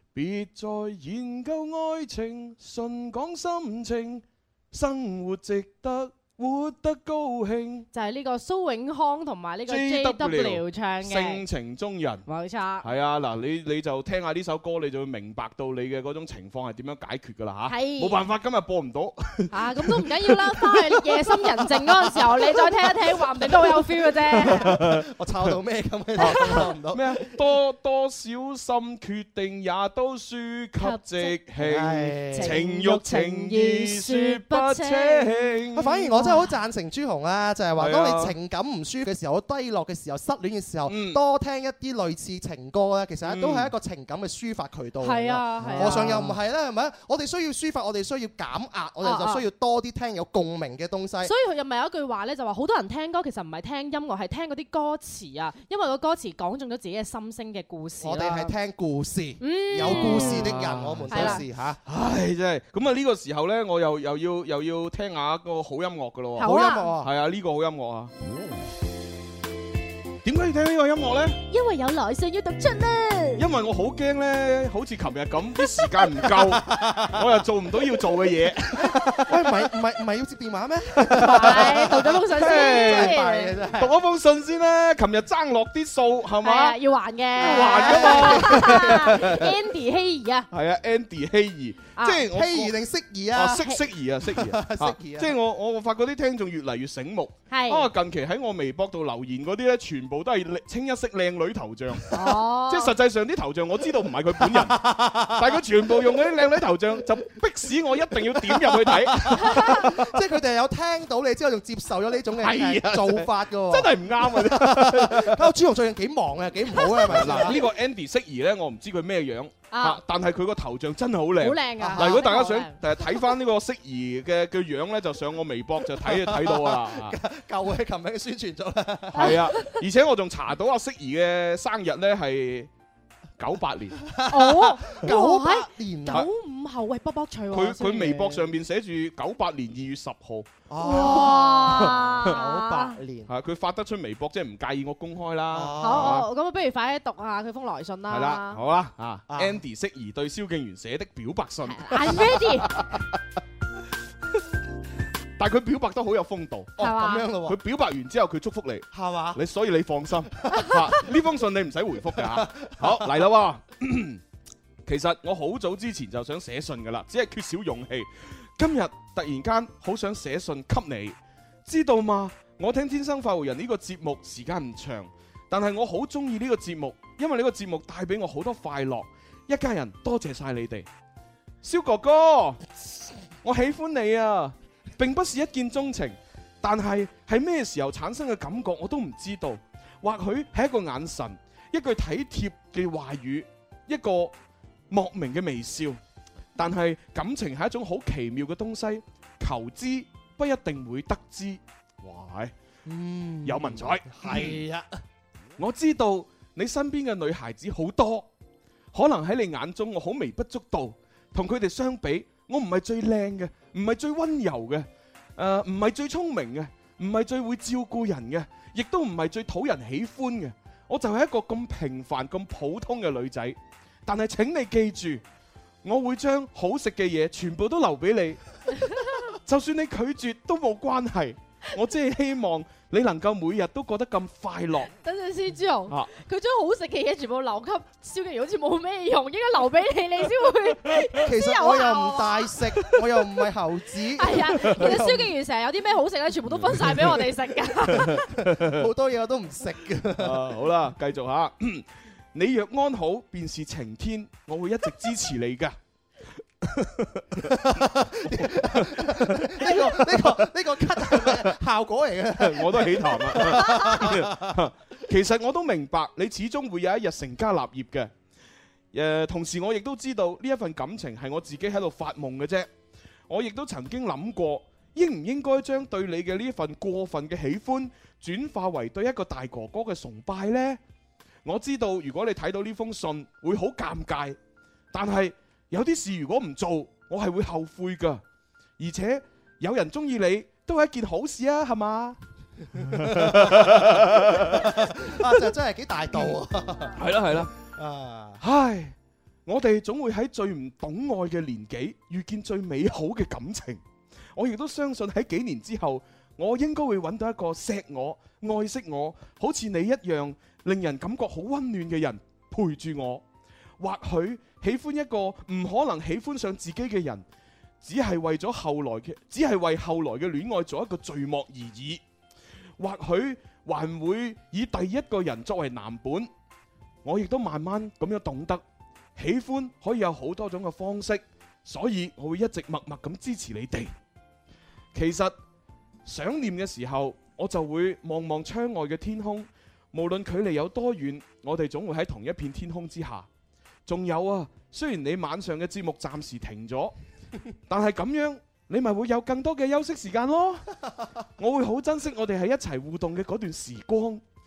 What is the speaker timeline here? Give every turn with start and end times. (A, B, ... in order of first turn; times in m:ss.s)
0:00.1-0:07.9 A
0:07.9-0:11.4 B
0:09.7-0:12.2 A
0:12.2-0:12.9 B
0:12.8-0:20.8 A
0:17.7-0:18.2 B
0:19.5-0:24.7 B
0:24.3-0:25.0 A
0:24.5-0:27.3 C
0:26.2-0:36.0 A
0:26.2-0:26.6 B
0:30.8-0:31.4 B
0:31.6-0:32.6 C
0:32.3-0:35.6 B
0:35.7-0:51.3 C
0:36.1-0:36.5 B
0:37.8-0:38.3 A
0:40.9-0:41.2 A
0:43.2-0:43.7 A
0:45.0-0:46.2 B
0:45.6-0:46.3 A
0:49.0-0:49.4 B
0:51.2-0:58.5 B
0:58.0-1:01.8 C
0:59.4-1:00.5 B
0:59.8-1:08.1 A
1:01.1-1:01.4 B
1:06.4-1:06.9 B
1:06.4-1:07.1 C
1:10.2-1:11.4 A
1:11.5-1:13.4 B
1:13.4-1:19.3 A
1:16.4-1:17.2 C
1:18.9-1:23.9 C
1:21.1-1:23.2 A
1:21.2-1:23.5 B
1:23.8-1:26.8 A
1:26.4-1:30.5 B
1:27.4-1:29.5 A
1:27.4-1:29.3 C
1:30.5-1:32.7 A
1:32.0-1:32.2 B
1:32.3-1:35.3 C
1:33.3-1:42.1 A
1:37.5-1:37.9 B
1:42.1-1:42.9 B
1:42.6-1:50.0 A
1:44.4-1:45.6 C
1:48.5-1:57.6 C
1:49.4-1:49.8 B
1:52.4-1:55.5 A
1:57.1-2:07.2 A
1:59.7-2:00.0 B
2:01.4-2:02.8 B
2:01.8-2:02.2 C
2:06.0-2:09.4 C
2:09.1-2:09.7 B
2:09.2-2:12.7 A
2:13.4-2:14.0 A
2:14.1-2:16.2 C
2:14.3-2:18.4 B
2:17.5-2:20.5 A
2:20.7-2:23.3 C
2:20.8-2:23.0 B
2:21.0-2:22.3 A
2:23.3-2:26.3 A
2:25.5-2:26.2 C
2:25.8-2:28.6 B
2:28.1-2:32.8 A
2:29.3-2:29.6 C
2:31.6-2:32.7 B
2:35.4-2:36.8 A
2:36.8-2:37.3 B
2:36.8-2:37.6 C
2:37.4-2:44.2 A
2:38.9-2:39.4 C
2:42.2-2:43.1 C
2:44.8-3:00.9 A
3:01.6-3:02.6 A
3:03.4-3:14.3 A
3:14.9-3:16.0 A
3:16.6-3:22.5 A
3:22.8-3:24.9 C
3:23.4-3:24.6 A
3:25.6-3:28.3 A
3:28.9-3:45.2 A
3:45.8-3:48.4 A
3:49.3-3:54.9 A
3:55.0-4:02.5 B
4:01.2-4:05.3 C
4:04.2-4:08.2 B
4:06.6-4:07.2 A
4:07.9-4:08.8 A
4:08.6-4:10.4 C
4:10.2-4:15.8 A
4:16.6-4:21.5 A
4:17.5-4:24.6 C
4:22.4-4:28.1 A
4:28.9-4:32.7 A
4:33.3-4:40.8 A
4:41.4-4:44.4 A
4:44.9-4:48.2 A
4:48.8-4:52.2 A
4:52.7-4:55.4 A
4:52.9-4:57.0 C
4:57.0-4:57.5 A
4:57.6-4:58.4 C
4:58.4-4:58.9 A
4:59.4-5:03.8 A
5:04.3-5:13.2 A
5:13.8-5:17.2 A
5:17.8-5:22.0 A
5:22.8-5:26.3 A
5:27.0-5:28.6 A
5:29.2-5:33.9 A
5:34.9-5:35.3 A
5:36.0-5:43.3 A
5:43.8-5:46.9 A
5:47.7-5:50.7 A
5:51.4-5:54.2 A